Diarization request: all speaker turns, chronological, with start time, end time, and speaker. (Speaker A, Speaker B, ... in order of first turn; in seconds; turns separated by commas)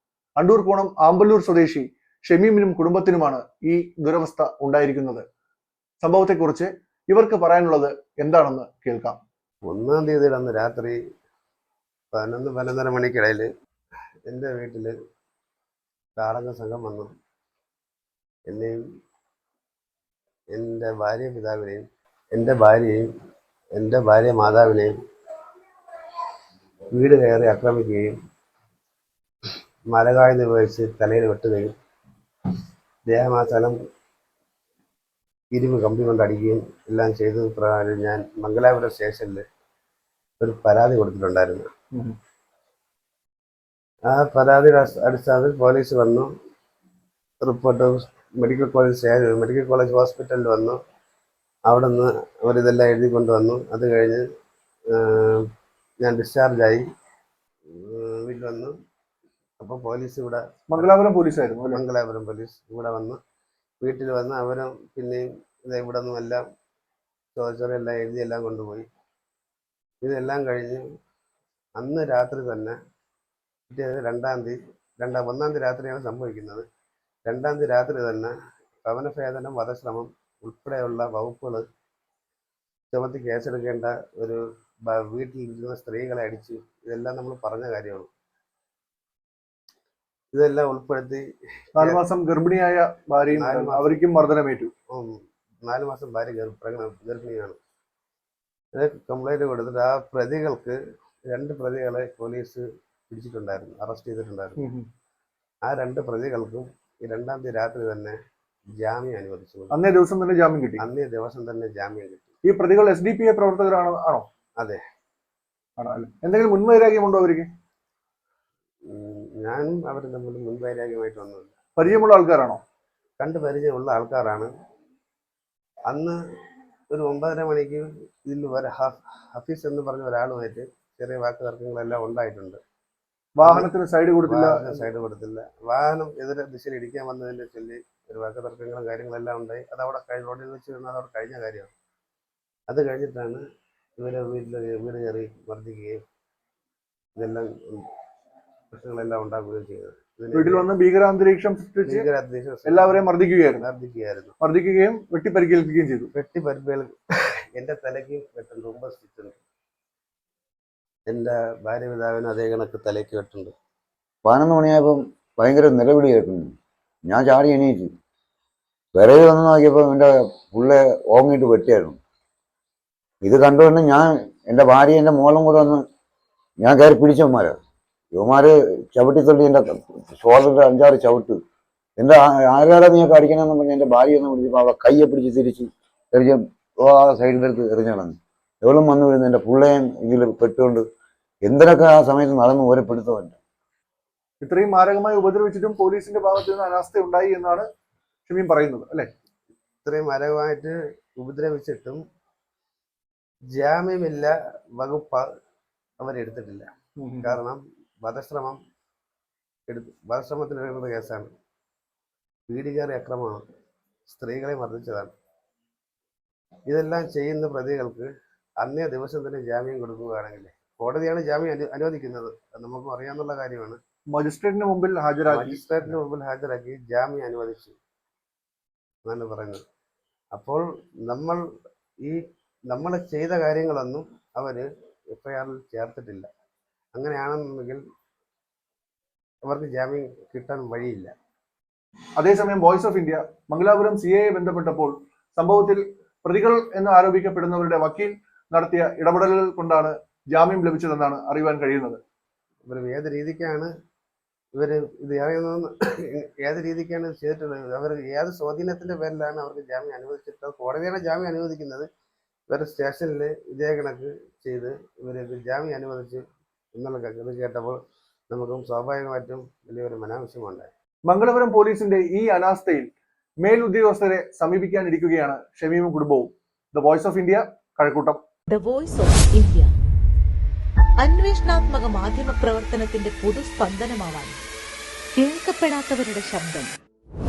Speaker A: 0.4-5.3, Speaker A: 6.0-9.2, Speaker B: 9.7-11.0, Speaker B: 12.1-13.5, Speaker B: 14.3-14.9, Speaker B: 16.2-17.1, Speaker B: 18.5-18.8, Speaker B: 20.5-23.1, Speaker B: 23.8-24.9, Speaker B: 26.9-28.1, Speaker B: 29.9-31.7, Speaker B: 33.1-33.8, Speaker B: 35.5-39.4, Speaker B: 40.4-41.7, Speaker B: 44.1-46.3, Speaker B: 47.4-50.8, Speaker B: 51.7-54.2, Speaker B: 54.9-55.4, Speaker B: 56.0-56.8, Speaker B: 57.9-58.7, Speaker B: 59.6-60.9, Speaker A: 60.7-61.8, Speaker B: 61.7-63.2, Speaker B: 63.8-66.4, Speaker B: 67.3-68.9, Speaker B: 70.0-70.8, Speaker B: 71.8-72.8, Speaker B: 73.7-76.7, Speaker B: 77.3-78.3, Speaker B: 78.8-81.6, Speaker B: 82.9-88.1, Speaker B: 90.3-91.2, Speaker A: 91.8-94.7, Speaker B: 93.3-94.0, Speaker B: 95.7-97.6, Speaker B: 98.8-100.8, Speaker B: 101.3-104.6, Speaker A: 104.6-104.9, Speaker B: 105.7-108.2, Speaker B: 108.8-109.8, Speaker A: 109.7-110.8, Speaker B: 110.8-112.3, Speaker A: 112.5-114.3, Speaker A: 115.8-117.5, Speaker B: 118.9-121.5, Speaker A: 121.8-122.6, Speaker B: 123.2-124.5, Speaker B: 125.9-126.2, Speaker B: 126.9-132.6, Speaker A: 133.4-134.8, Speaker B: 133.4-133.7, Speaker B: 134.3-141.7, Speaker B: 142.7-143.4, Speaker B: 144.0-146.0, Speaker B: 147.2-147.9, Speaker B: 148.7-150.7, Speaker A: 150.3-152.1, Speaker B: 151.8-153.1, Speaker A: 152.7-153.7, Speaker B: 153.6-154.4, Speaker A: 154.4-156.1, Speaker B: 156.1-156.9, Speaker B: 157.6-159.4, Speaker B: 161.1-163.5, Speaker C: 164.2-166.5, Speaker C: 167.1-167.9, Speaker C: 168.9-172.0, Speaker C: 173.2-175.8, Speaker C: 176.6-177.6, Speaker C: 178.1-181.4, Speaker C: 182.0-190.9, Speaker C: 191.4-193.4, Speaker A: 194.4-197.7, Speaker A: 198.3-199.1, Speaker B: 199.8-202.0, Speaker B: 203.5-205.2, Speaker B: 206.0-206.7, Speaker A: 207.0-207.4, Speaker B: 207.2-208.6, Speaker B: 209.7-211.3, Speaker B: 212.5-213.4, Speaker B: 214.1-215.1, Speaker B: 216.7-218.1, Speaker B: 218.6-223.8, Speaker A: 224.1-225.9, Speaker B: 225.3-227.8, Speaker B: 229.1-229.6, Speaker B: 230.3-231.4, Speaker B: 232.7-236.3, Speaker B: 236.9-237.8, Speaker B: 239.5-241.1, Speaker A: 242.2-252.0, Speaker B: 252.7-253.7, Speaker B: 254.6-261.9, Speaker B: 262.5-266.2, Speaker B: 266.8-267.8, Speaker B: 268.3-270.7, Speaker A: 271.1-272.9, Speaker A: 273.4-278.2, Speaker D: 278.5-279.7, Speaker D: 281.0-284.4, Speaker D: 285.1-286.7